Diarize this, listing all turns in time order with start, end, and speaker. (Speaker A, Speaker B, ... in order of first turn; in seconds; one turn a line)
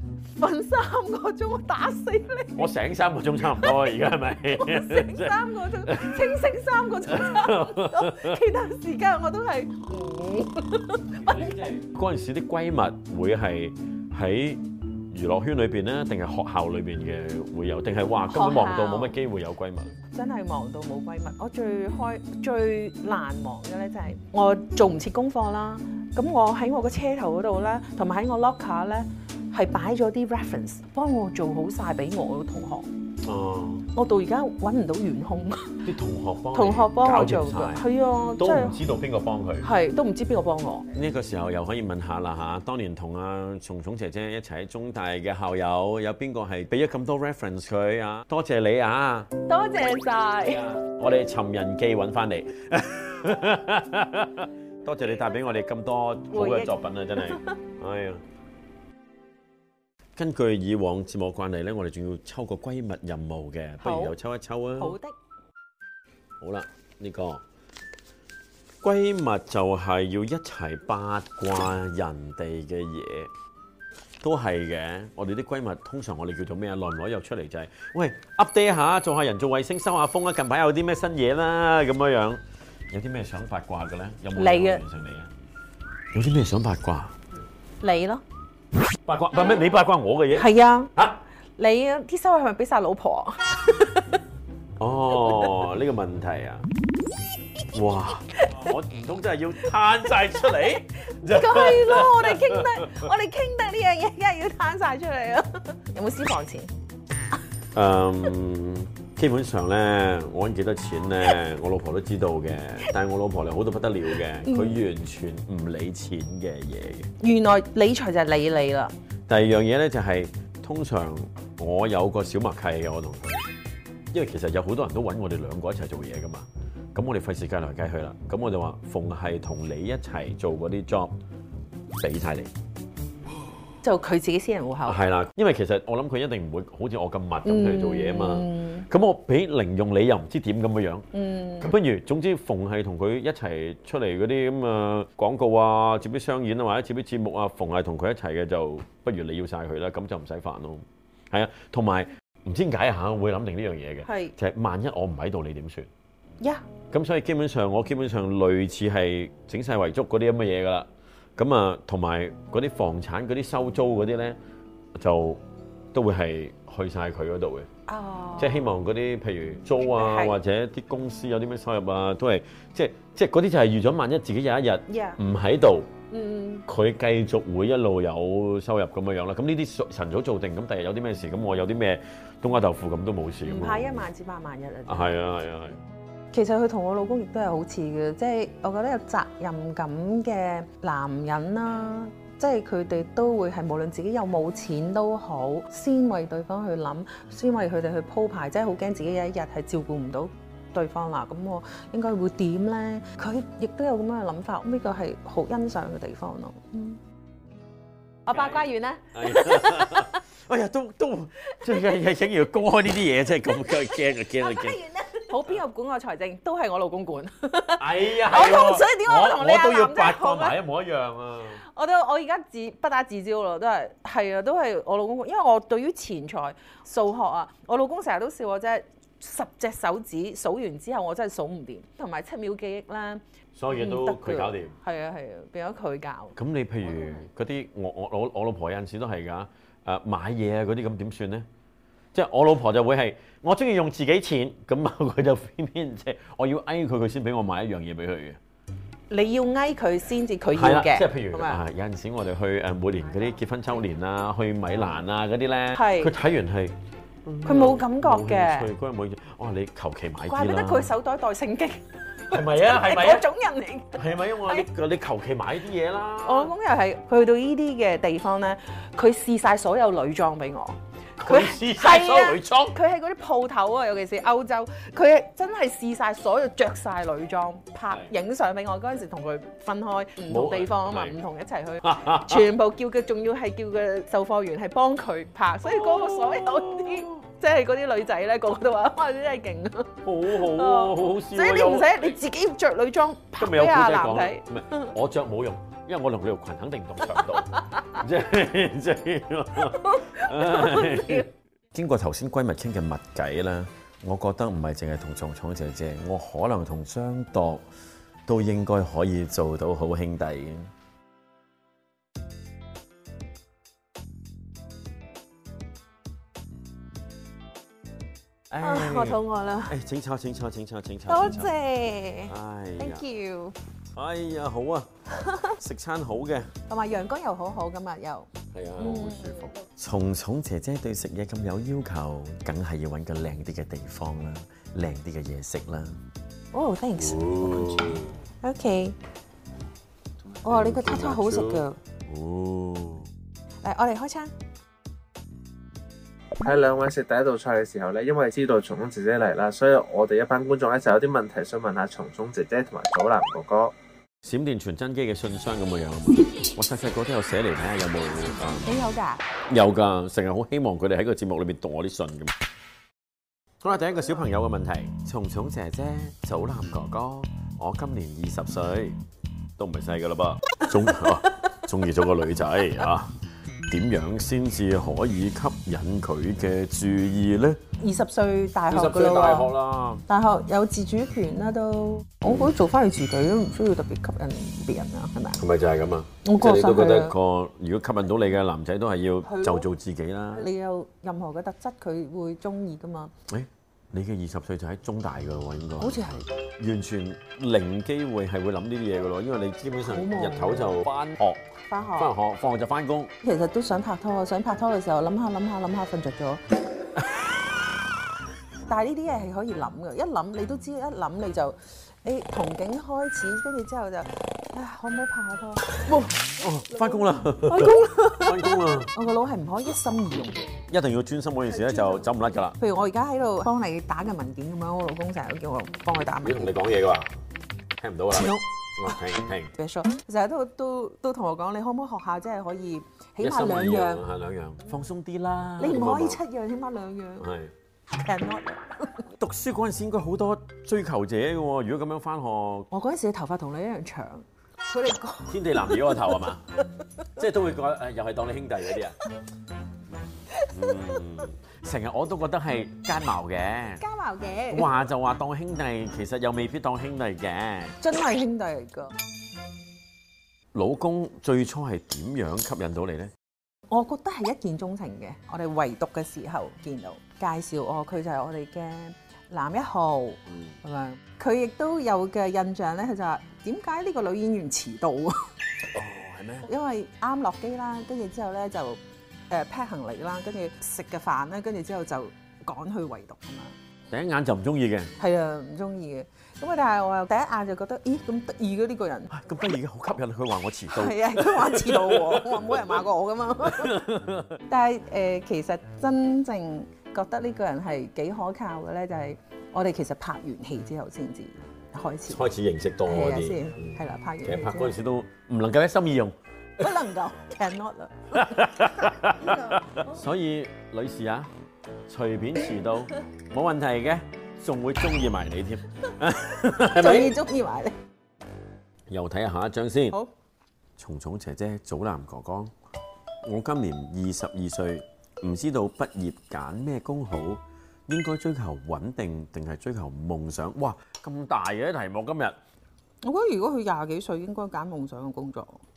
Speaker A: 0.2-2.7
Speaker B: 2.5-6.2
Speaker A: 3.6-3.8
Speaker A: 4.5-11.5
Speaker B: 7.1-8.4
Speaker B: 11.2-19.9
Speaker A: 18.3-19.1
Speaker A: 20.1-32.9
Speaker B: 33.2-33.9
Speaker A: 33.9-35.8
Speaker B: 35.8-37.8
Speaker A: 36.5-38.8
Speaker B: 38.4-39.7
Speaker A: 39.6-40.9
Speaker B: 40.9-49.3
Speaker A: 49.5-50.7
Speaker B: 50.5-58.2
Speaker A: 56.3-57.5
Speaker B: 60.1-65.0
Speaker A: 63.8-64.2
Speaker A: 64.8-65.1
Speaker B: 66.4-67.4
Speaker B: 68.8-73.3
Speaker B: 74.2-85.3
Speaker A: 84.3-84.8
Speaker B: 86.1-87.1
Speaker A: 87.8-88.2
Speaker B: 89.0-91.2
Speaker A: 90.3-90.9
Speaker A: 91.6-94.2
Speaker B: 94.8-96.7
Speaker A: 95.2-95.5
Speaker B: 97.7-103.1
Speaker A: 98.2-98.7
Speaker A: 101.0-106.7
Speaker B: 107.7-117.1
Speaker A: 114.4-114.8
Speaker A: 117.2-118.9
Speaker B: 119.3-123.4
Speaker B: 124.1-131.2
Speaker B: 131.9-132.5
Speaker A: 133.8-135.0
Speaker B: 134.8-141.1
Speaker A: 137.4-138.9
Speaker A: 141.1-141.7
Speaker B: 141.6-155.9
Speaker A: 154.0-154.3
Speaker B: 156.9-164.4
Speaker B: 164.9-165.4
Speaker B: 165.9-167.7
Speaker A: 167.9-168.7
Speaker B: 168.4-175.9
Speaker A: 169.8-170.4
Speaker A: 174.9-175.2
Speaker A: 176.1-176.6
Speaker B: 176.7-184.1
Speaker A: 183.4-185.2
Speaker B: 184.9-185.8
Speaker A: 186.3-207.0
Speaker A: 208.2-210.2
Speaker B: 208.3-214.8
Speaker A: 211.4-211.8
Speaker A: 213.7-220.6
Speaker B: 217.8-221.6
Speaker A: 221.6-236.3
Speaker B: 233.5-234.7
Speaker B: 236.3-241.5
Speaker B: 242.1-248.4
Speaker A: 249.1-251.6
Speaker B: 250.5-260.9
Speaker A: 255.7-256.1
Speaker A: 257.4-258.7
Speaker A: 260.2-264.6
Speaker B: 262.3-263.3
Speaker B: 263.9-266.5
Speaker A: 266.2-294.9
Speaker B: 271.2-272.8
Speaker B: 280.2-281.2
Speaker B: 281.8-282.5
Speaker B: 285.6-287.2
Speaker B: 290.0-292.2
Speaker B: 293.4-307.6
Speaker A: 297.5-298.0
Speaker A: 299.8-301.3
Speaker B: 308.2-310.7
Speaker B: 318.5-321.5
Speaker A: 318.6-319.8
Speaker A: 321.1-323.6
Speaker B: 322.3-323.0
Speaker B: 323.9-324.9
Speaker A: 325.1-325.6
Speaker B: 325.6-326.5
Speaker A: 326.7-329.6
Speaker B: 328.5-336.0
Speaker A: 336.5-339.0
Speaker B: 336.9-338.2
Speaker B: 340.4-343.1
Speaker A: 340.4-341.8
Speaker A: 343.6-344.3
Speaker C: 346.4-353.7
Speaker B: 354.2-358.7
Speaker A: 358.6-359.2
Speaker B: 359.5-362.3
Speaker B: 363.6-369.0
Speaker B: 369.6-373.1
Speaker B: 373.7-377.6
Speaker A: 377.8-379.5
Speaker B: 378.7-380.0
Speaker A: 380.1-385.4
Speaker B: 385.4-390.5
Speaker A: 386.2-387.1
Speaker A: 389.2-389.6
Speaker A: 390.3-393.1
Speaker B: 393.3-396.0
Speaker A: 395.8-396.3
Speaker B: 396.6-401.4
Speaker A: 399.9-400.8
Speaker A: 401.7-402.1
Speaker B: 402.0-403.1
Speaker A: 403.2-406.4
Speaker A: 408.7-420.4
Speaker B: 416.4-418.9
Speaker B: 420.7-422.6
Speaker A: 421.7-422.0
Speaker A: 422.6-426.5
Speaker B: 426.2-427.1
Speaker B: 427.8-429.5
Speaker A: 428.1-428.9
Speaker A: 429.5-434.0
Speaker B: 433.2-436.2
Speaker A: 435.6-437.3
Speaker B: 437.2-437.5
Speaker A: 437.9-439.1
Speaker B: 439.2-442.7
Speaker A: 442.7-446.2
Speaker B: 445.3-446.4
Speaker B: 447.2-449.0
Speaker A: 450.3-450.9
Speaker B: 450.5-453.8
Speaker A: 453.8-454.7
Speaker B: 454.5-457.8
Speaker A: 457.8-458.9
Speaker B: 460.5-463.1
Speaker A: 463.7-475.2
Speaker B: 475.7-476.5
Speaker A: 476.4-483.5
Speaker B: 483.9-484.9
Speaker A: 485.0-489.1
Speaker B: 489.1-492.8
Speaker A: 490.7-493.8
Speaker B: 493.4-494.4
Speaker A: 494.5-502.2
Speaker B: 502.1-506.1
Speaker A: 502.8-504.8
Speaker A: 506.6-508.6
Speaker B: 508.1-511.3
Speaker A: 509.1-509.9
Speaker B: 511.9-517.1
Speaker A: 516.7-517.8
Speaker B: 518.9-520.0
Speaker B: 520.8-522.5
Speaker B: 523.2-532.4
Speaker A: 533.0-535.6